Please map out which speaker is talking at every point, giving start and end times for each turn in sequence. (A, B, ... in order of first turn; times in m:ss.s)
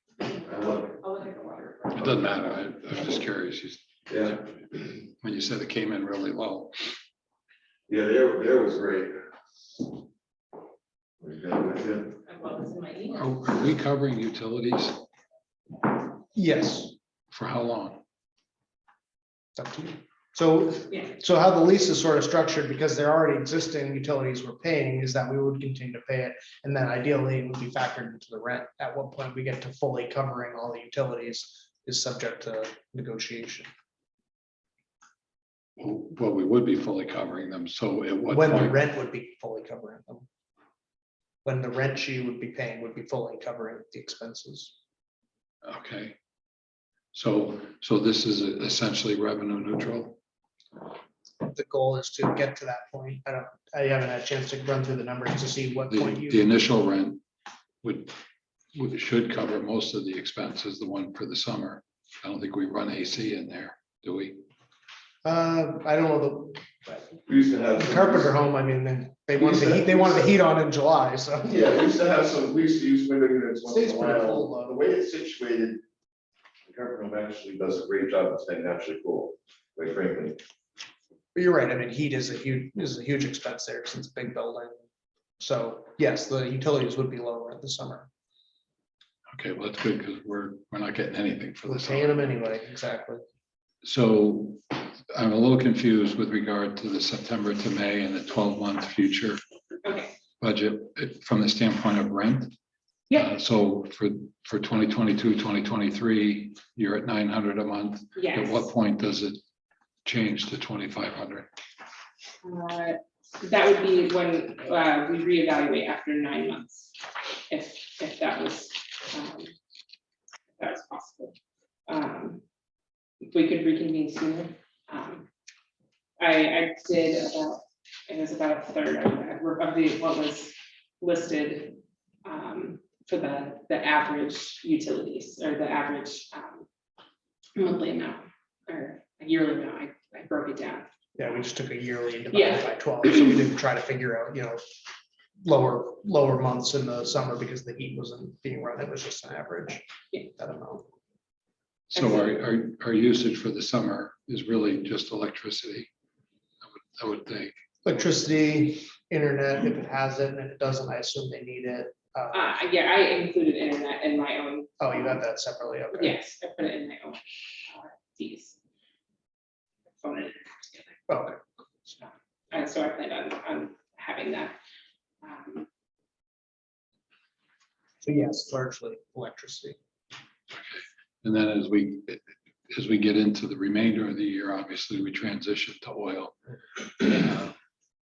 0:00.3-0:02.4 A
0:00.4-0:01.0 B
0:02.0-0:04.5 C
0:04.1-0:04.4 B
0:05.2-0:06.8 C
0:07.9-0:09.2 B
0:11.2-0:12.2 B
0:12.3-0:13.2 A
0:13.1-0:15.0 C
0:16.4-0:17.0 D
0:17.3-0:18.0 C
0:19.6-0:33.7 D
0:35.8-0:38.8 C
0:38.3-0:40.3 D
0:41.4-0:44.7 D
0:45.6-0:46.2 C
0:47.1-0:50.2 C
0:51.4-0:56.5 D
0:55.9-0:57.2 C
0:57.8-0:58.1 C
0:58.7-1:04.4 C
1:05.2-1:07.1 D
1:07.3-1:08.3 B
1:07.8-1:11.7 D
1:09.4-1:10.3 B
1:11.4-1:15.8 B
1:13.7-1:14.8 D
1:16.7-1:20.4 B
1:21.4-1:24.8 D
1:25.4-1:28.1 D
1:29.3-1:32.4 C
1:31.6-1:33.2 D
1:33.8-1:39.4 C
1:39.8-1:40.2 A
1:40.4-1:42.5 C
1:43.1-1:49.4 C
1:48.2-1:48.7 A
1:50.0-1:51.5 C
1:52.4-1:56.9 A
1:57.5-1:59.5 A
2:00.6-2:01.4 A
2:01.9-2:02.4 A
2:03.2-2:05.3 A
2:06.2-2:16.6 A
2:17.6-2:20.9 A
2:21.2-2:24.6 D
2:22.3-2:23.1 A
2:25.4-2:29.8 D
2:30.4-2:30.9 D
2:31.9-2:35.9 C
2:36.6-2:37.6 C
2:37.8-2:42.4 D
2:42.3-2:45.2 A
2:44.8-2:46.2 D
2:45.9-2:48.6 A
2:50.0-2:51.0 A
2:51.1-2:51.4 D
2:52.0-2:54.6 A
2:55.2-2:55.7 A
2:58.0-2:59.8 D
3:00.5-3:06.4 C
3:06.9-3:07.6 C